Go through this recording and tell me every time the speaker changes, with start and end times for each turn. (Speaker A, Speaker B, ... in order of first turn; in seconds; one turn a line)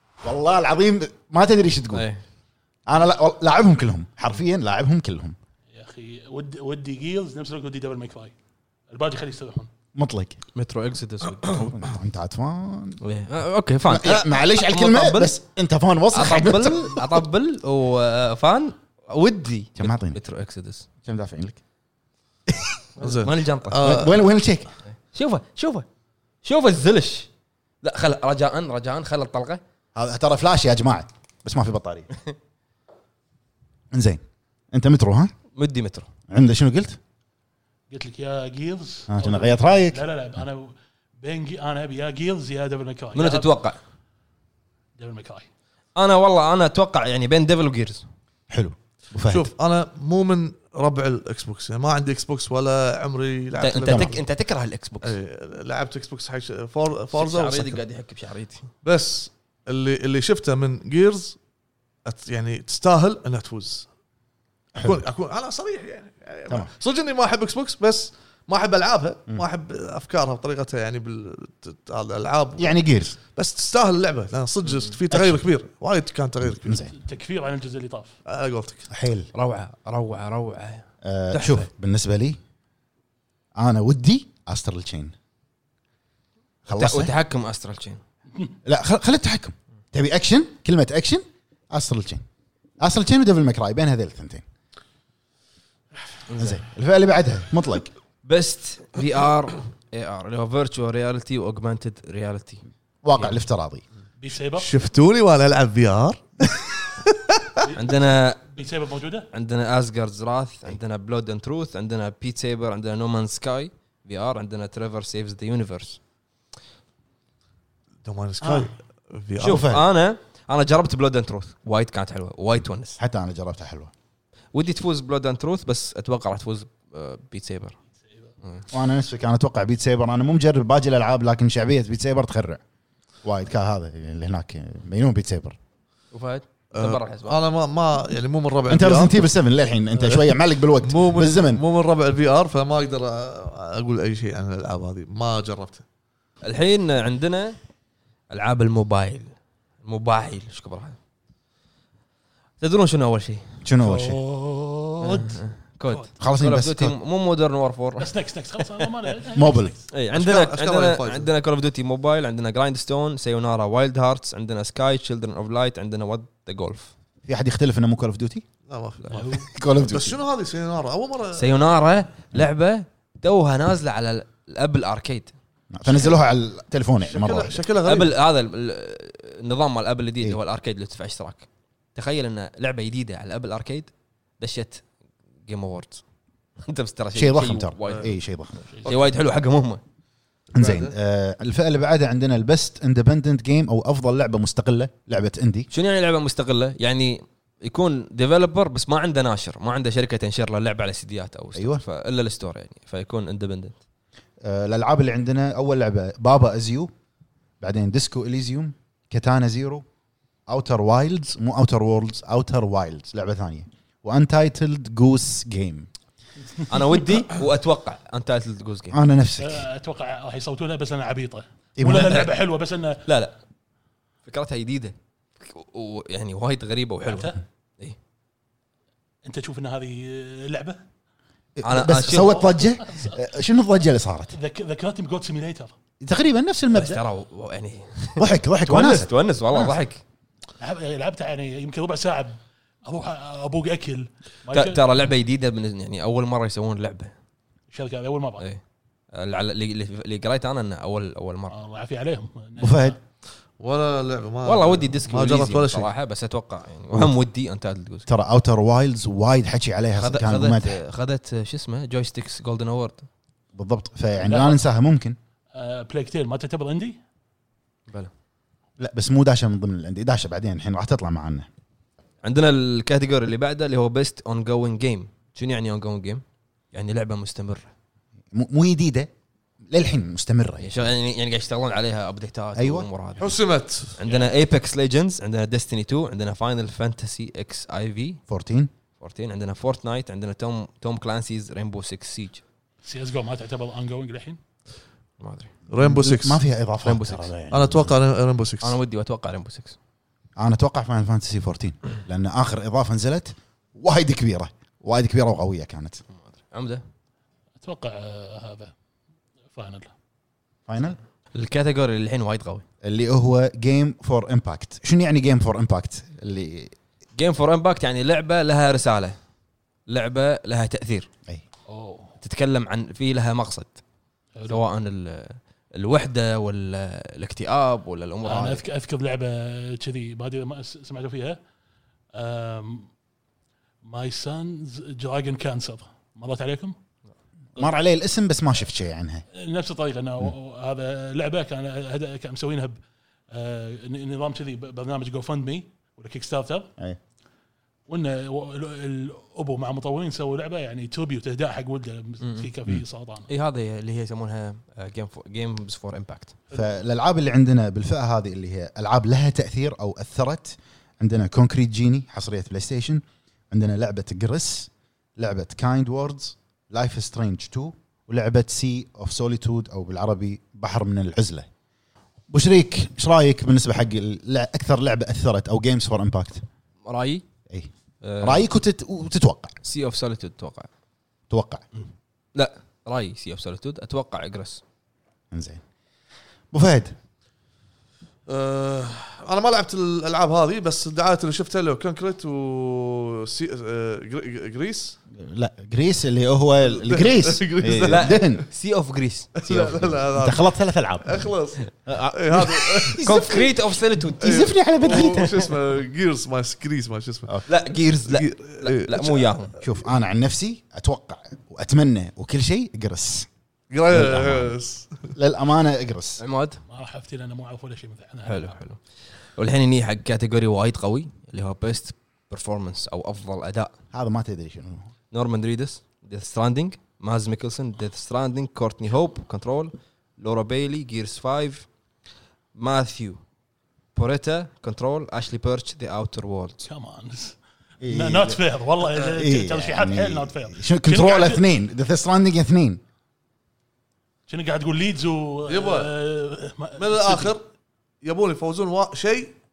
Speaker A: 0.2-2.0
Speaker B: 1.9-2.2
Speaker A: 2.9-5.3
Speaker C: 5.7-8.3
Speaker C: 8.9-9.7
Speaker A: 9.9-10.4
Speaker B: 10.5-11.7
Speaker A: 11.5-13.0
Speaker B: 13.0-15.3
Speaker A: 13.9-17.2
Speaker B: 16.1-20.9
Speaker A: 19.8-20.2
Speaker A: 21.0-21.6
Speaker B: 23.0-24.0
Speaker D: 23.0-24.2
Speaker A: 23.8-24.7
Speaker B: 25.1-25.9
Speaker B: 26.4-27.3
Speaker B: 27.8-29.6
Speaker A: 29.9-32.1
Speaker A: 33.9-34.2
Speaker A: 34.7-35.3
Speaker B: 35.5-36.1
Speaker A: 36.3-37.0
Speaker C: 37.9-43.5
Speaker A: 39.1-40.0
Speaker B: 43.1-43.8
Speaker C: 45.0-45.5
Speaker B: 45.9-48.0
Speaker A: 48.5-49.5
Speaker D: 49.3-54.2
Speaker B: 53.6-55.1
Speaker D: 55.0-57.8
Speaker B: 57.1-58.7
Speaker D: 58.8-61.4
Speaker D: 62.0-63.9
Speaker D: 64.8-72.8
Speaker A: 72.6-73.2
Speaker D: 73.3-76.8
Speaker A: 75.1-75.4
Speaker A: 76.5-76.9
Speaker C: 76.8-78.1
Speaker D: 78.2-78.9
Speaker A: 78.9-79.3
Speaker B: 79.3-81.7
Speaker A: 81.0-82.4
Speaker A: 83.5-85.1
Speaker A: 86.7-87.1
Speaker B: 86.7-88.0
Speaker A: 88.6-92.2
Speaker A: 92.8-94.4
Speaker B: 96.3-96.6
Speaker A: 96.4-97.9
Speaker B: 98.2-102.6
Speaker A: 103.0-103.8
Speaker C: 104.2-104.7
Speaker D: 104.6-107.5
Speaker C: 107.6-109.3
Speaker B: 107.7-108.4
Speaker B: 109.3-116.0
Speaker D: 118.0-119.7
Speaker B: 119.4-123.0
Speaker A: 119.4-119.8
Speaker A: 123.0-123.9
Speaker B: 124.5-127.8
Speaker A: 128.7-132.6
Speaker A: 133.2-135.6
Speaker B: 136.1-137.4
Speaker D: 136.7-139.2
Speaker A: 138.7-141.6
Speaker D: 140.8-145.8
Speaker B: 146.4-147.6
Speaker B: 148.3-149.3
Speaker B: 149.8-151.0
Speaker B: 152.6-153.4
Speaker A: 153.6-154.2
Speaker C: 153.8-155.4
Speaker B: 155.0-158.1
Speaker A: 156.2-156.9
Speaker C: 158.0-159.8
Speaker A: 159.3-159.7
Speaker B: 159.9-166.9
Speaker D: 160.1-161.3
Speaker A: 167.2-168.4
Speaker D: 168.7-171.5
Speaker C: 169.1-169.5
Speaker A: 169.5-170.2
Speaker B: 171.3-175.3
Speaker A: 175.7-177.6
Speaker D: 177.0-178.1
Speaker B: 177.8-184.8
Speaker B: 185.4-186.0
Speaker B: 186.6-188.1
Speaker A: 187.1-188.6
Speaker D: 187.8-188.1
Speaker B: 188.8-189.8
Speaker D: 190.5-190.9
Speaker A: 190.5-195.7
Speaker B: 195.7-203.8
Speaker A: 201.5-201.8
Speaker A: 204.4-206.9
Speaker A: 207.6-209.8
Speaker A: 210.5-215.9
Speaker B: 216.7-218.9
Speaker A: 218.9-219.7
Speaker C: 219.4-223.0
Speaker A: 221.8-222.2
Speaker B: 221.8-222.3
Speaker B: 223.0-223.3
Speaker B: 224.2-228.0
Speaker C: 227.1-227.4
Speaker C: 229.2-230.8
Speaker A: 231.6-234.3
Speaker B: 231.6-232.5
Speaker C: 232.1-233.2
Speaker C: 234.3-235.7
Speaker A: 236.0-237.0
Speaker B: 236.7-240.0
Speaker A: 238.2-239.7
Speaker C: 240.6-244.8
Speaker B: 244.5-247.1
Speaker C: 247.7-248.4
Speaker B: 249.1-251.5
Speaker C: 251.5-253.0
Speaker A: 252.6-253.0
Speaker D: 253.6-255.9
Speaker B: 254.4-258.1
Speaker A: 258.1-260.8
Speaker B: 260.0-263.1
Speaker A: 263.5-265.1
Speaker C: 264.2-264.6
Speaker C: 265.5-267.0
Speaker A: 268.8-271.5
Speaker B: 272.2-277.7
Speaker A: 278.3-279.1
Speaker A: 279.7-280.7
Speaker B: 280.6-283.4
Speaker A: 282.6-282.9
Speaker D: 283.2-284.0
Speaker B: 284.0-288.2
Speaker A: 288.3-288.7
Speaker B: 289.0-292.4
Speaker C: 292.8-294.4
Speaker B: 295.2-295.5
Speaker D: 295.7-296.4
Speaker A: 295.8-297.9
Speaker B: 296.8-297.3
Speaker D: 297.5-298.8
Speaker B: 298.6-299.8
Speaker A: 300.4-306.0
Speaker B: 306.3-306.8
Speaker C: 307.6-308.7
Speaker C: 309.5-309.9
Speaker A: 310.7-311.0
Speaker B: 311.3-312.6
Speaker A: 312.8-316.7
Speaker B: 317.1-319.2
Speaker B: 319.9-321.1
Speaker C: 321.7-322.1
Speaker B: 322.2-323.8
Speaker C: 324.4-324.6
Speaker B: 324.5-328.6
Speaker C: 328.2-331.4
Speaker C: 332.1-332.9
Speaker C: 333.8-336.7
Speaker A: 337.6-339.2
Speaker C: 339.3-342.8
Speaker C: 343.3-346.7
Speaker C: 347.9-353.3
Speaker B: 352.2-352.5
Speaker B: 353.3-356.3
Speaker A: 356.5-371.5
Speaker A: 372.3-376.4
Speaker B: 376.8-377.2
Speaker B: 378.0-378.4
Speaker A: 378.2-379.6
Speaker B: 379.6-380.7
Speaker A: 381.3-381.6
Speaker B: 382.3-384.6
Speaker A: 385.3-385.6
Speaker A: 386.5-386.9
Speaker D: 388.3-395.0
Speaker A: 395.1-398.4
Speaker D: 396.6-398.3
Speaker B: 397.8-399.4
Speaker D: 399.4-403.1
Speaker A: 399.5-401.2
Speaker A: 401.9-403.5
Speaker B: 403.0-405.2
Speaker A: 404.2-405.5
Speaker D: 404.2-407.4
Speaker B: 407.5-409.5
Speaker D: 408.1-409.6
Speaker A: 409.6-413.3
Speaker D: 413.7-415.1
Speaker A: 413.9-414.5
Speaker A: 415.1-416.2
Speaker B: 416.2-416.6
Speaker C: 416.7-418.6
Speaker B: 418.2-418.8
Speaker B: 419.4-423.7
Speaker A: 423.9-424.9
Speaker B: 425.1-431.7
Speaker B: 432.5-433.2
Speaker B: 433.9-436.7
Speaker C: 436.6-441.4
Speaker A: 437.8-438.4
Speaker A: 438.9-442.8
Speaker C: 444.3-447.3
Speaker D: 445.4-445.9
Speaker D: 446.8-447.4
Speaker D: 448.0-449.3